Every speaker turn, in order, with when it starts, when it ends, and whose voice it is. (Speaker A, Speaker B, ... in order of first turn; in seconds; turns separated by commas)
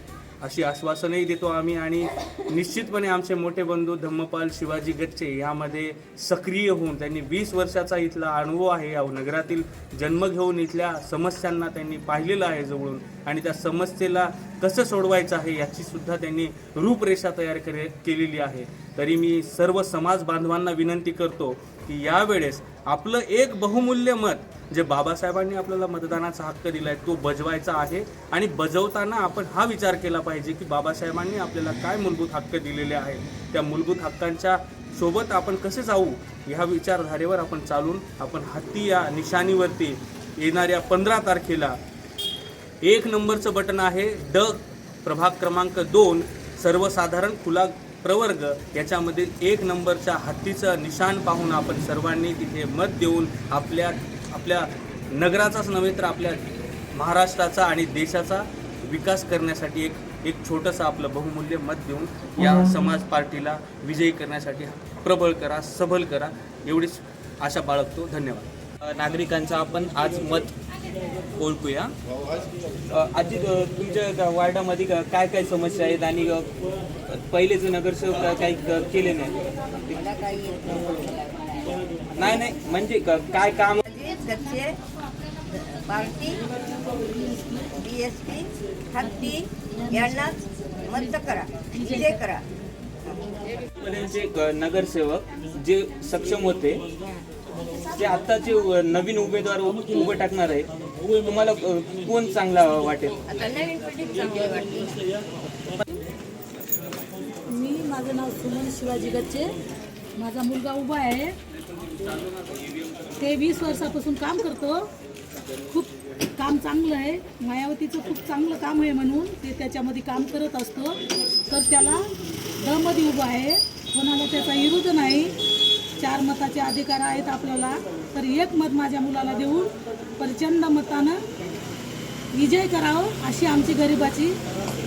Speaker A: 0.4-41.8, Speaker A: 42.8-68.5, Speaker B: 68.8-70.5, Speaker B: 71.4-71.9, Speaker B: 72.9-76.5, Speaker B: 77.1-79.3, Speaker C: 79.8-82.2, Speaker B: 82.2-83.8, Speaker C: 83.8-84.8, Speaker C: 85.4-86.6, Speaker C: 87.2-92.4, Speaker B: 93.8-96.8, Speaker B: 97.9-103.2, Speaker C: 103.2-105.2, Speaker D: 107.5-109.5, Speaker D: 110.2-111.3, Speaker D: 113.2-114.9, Speaker D: 115.7-122.0, Speaker D: 122.6-125.3, Speaker D: 126.0-131.2, Speaker D: 132.3-134.4